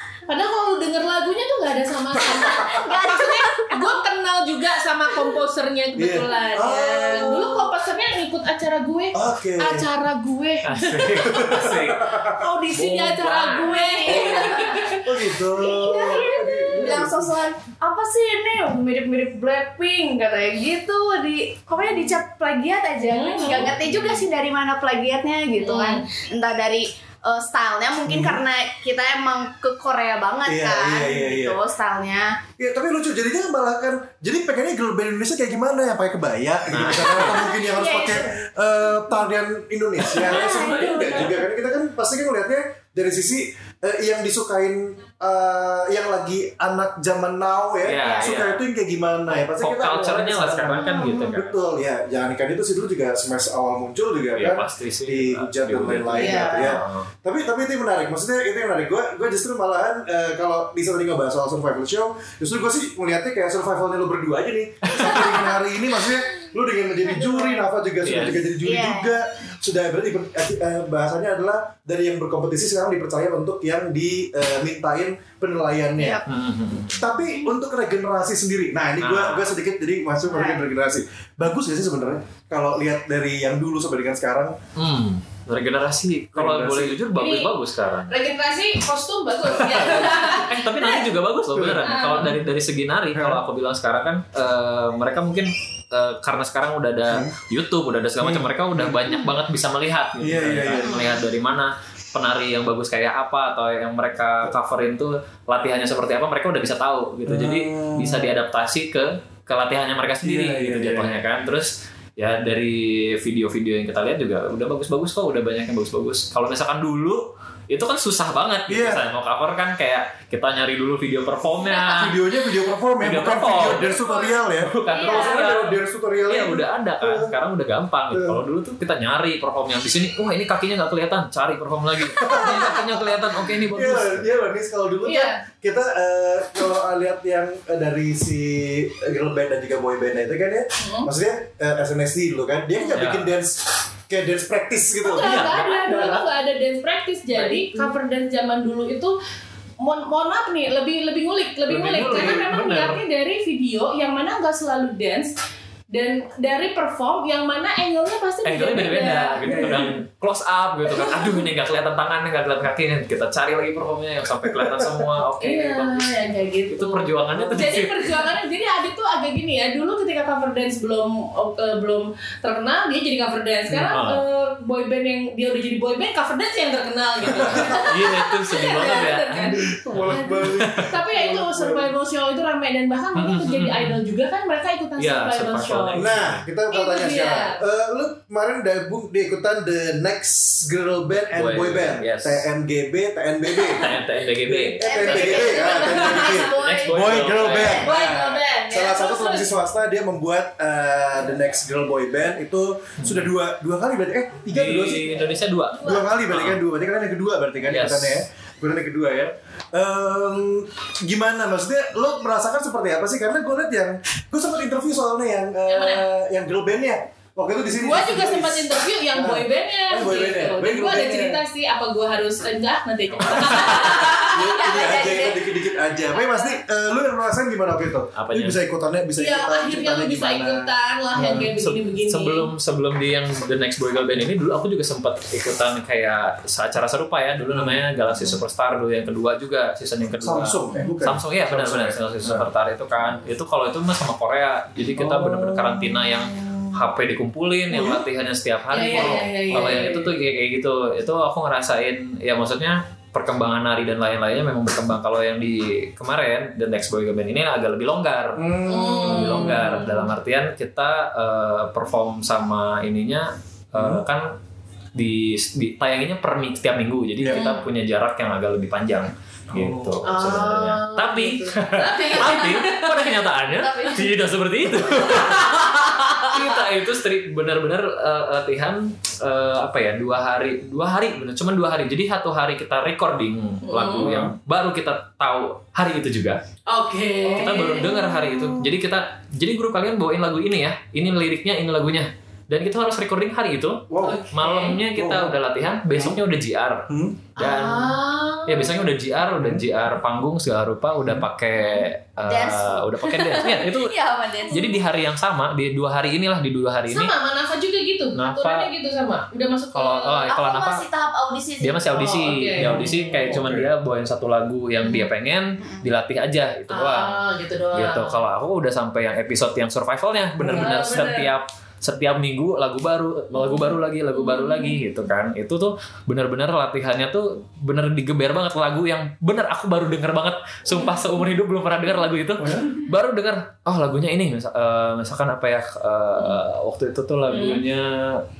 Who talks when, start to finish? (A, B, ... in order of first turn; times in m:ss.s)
0:00.3-0:11.6 A
0:02.2-0:04.0 B
0:02.4-0:02.8 C
0:05.1-0:05.4 B
0:06.0-0:07.7 C
0:09.2-0:09.9 C
0:10.7-0:12.2 D
0:11.1-0:12.4 C
0:12.3-0:15.1 A
0:12.7-0:14.4 D
0:13.6-0:15.0 B
0:15.0-0:17.3 C
0:15.6-0:32.4 B
0:15.8-0:17.0 A
0:23.0-0:23.8 A
0:25.6-0:26.0 A
0:28.1-0:28.4 C
0:30.5-0:31.6 C
0:32.6-1:16.2 C
0:36.7-0:37.4 D
0:37.0-0:38.4 B
0:40.0-0:41.4 D
0:40.1-0:41.4 B
0:47.8-0:48.6 D
0:48.0-0:48.3 B
0:49.3-0:51.6 D
0:50.7-0:51.3 B
0:54.4-0:57.1 D
0:56.1-0:56.8 B
1:04.9-1:05.4 D
1:07.1-1:07.7 B
1:08.0-1:08.4 D
1:08.6-1:09.2 B
1:16.0-1:16.2 B
1:16.2-1:16.9 D
1:16.9-1:24.6 C
1:19.0-1:19.5 D
1:20.2-1:20.6 B
1:24.8-1:28.1 D
1:26.4-1:27.0 C
1:27.2-1:27.5 A
1:28.1-1:31.0 A
1:29.4-2:02.2 D
1:31.5-1:32.0 C
1:31.8-1:32.3 A
1:33.2-1:33.4 C
1:38.2-1:39.0 C
1:40.2-1:41.1 C
1:40.8-1:41.1 B
1:47.3-1:48.4 C
1:50.2-1:51.2 C
1:58.7-1:59.0 C
2:01.8-2:07.3 C
2:03.0-2:04.0 D
2:03.7-2:05.4 B
2:04.6-2:05.8 D
2:06.3-2:14.3 D
2:08.1-2:08.4 C
2:12.1-2:26.2 C
2:20.8-2:21.1 A
2:22.9-2:23.3 D
2:25.0-2:29.2 A
2:25.2-2:26.2 D
2:27.3-2:27.9 D
2:29.8-2:35.3 A
2:31.7-2:32.6 C
2:31.8-2:33.0 D
2:35.9-2:39.7 A
2:38.4-2:48.2 D
2:39.5-2:40.0 C
2:40.9-2:41.4 A
2:44.4-2:45.1 C
2:45.4-3:06.0 A
2:47.3-2:47.7 C
2:53.9-2:54.2 D
2:57.2-2:57.9 C
2:57.2-3:00.9 D
2:59.6-3:01.9 C
3:03.2-3:04.0 D
3:05.0-3:06.4 D
3:05.9-3:14.0 C
3:06.7-3:07.6 A
3:11.3-3:12.5 D
3:13.5-3:13.9 A
3:13.7-3:15.5 D
3:14.5-3:25.2 C
3:14.8-3:17.8 B
3:14.9-3:16.5 A
3:16.5-3:17.9 D
3:17.8-3:19.5 A
3:24.5-3:26.6 D
3:25.7-3:26.1 A
3:25.8-3:41.4 C
3:27.7-3:28.2 D
3:35.7-3:36.0 A
3:37.8-3:45.2 A
3:43.1-3:43.9 D
3:43.2-3:51.5 C
3:43.7-3:45.6 B
3:46.2-3:46.4 B
3:48.2-3:48.6 D
3:49.2-3:52.5 A
3:51.3-4:24.3 D
3:57.4-3:57.8 C
4:00.2-4:02.5 C
4:05.0-4:06.0 C
4:06.3-4:06.8 A
4:07.7-4:08.0 A
4:08.7-4:10.1 A
4:08.9-4:09.9 C
4:18.4-4:19.7 C
4:18.7-4:20.0 A
4:23.8-4:24.0 C
4:25.0-4:46.4 D
4:27.2-4:27.5 C
4:27.3-4:27.6 A
4:29.5-4:30.0 C
4:30.0-4:33.2 A
4:33.6-4:34.2 B
4:34.7-4:35.2 C
4:34.9-4:36.5 A
4:43.7-4:44.2 A
4:44.0-4:44.3 C
4:46.7-4:48.3 A
4:47.3-5:04.0 D
4:53.9-4:54.2 C
4:54.0-4:54.8 A
4:55.0-4:55.4 C
4:56.9-4:57.2 C
4:57.4-4:58.8 A
5:01.7-5:04.8 B
5:04.5-5:04.8 A
5:04.5-5:07.1 D
5:06.9-5:10.2 A
5:08.2-5:08.7 D
5:09.7-5:10.8 D
5:10.3-5:12.1 B
5:11.6-5:17.2 D
5:12.0-5:13.4 A
5:12.6-5:13.7 C
5:16.7-5:18.2 A
5:17.7-5:38.2 D
5:20.4-5:20.8 C
5:20.5-5:21.3 A
5:23.4-5:24.8 A
5:30.7-5:31.0 A
5:32.4-5:32.7 C
5:37.3-5:37.6 A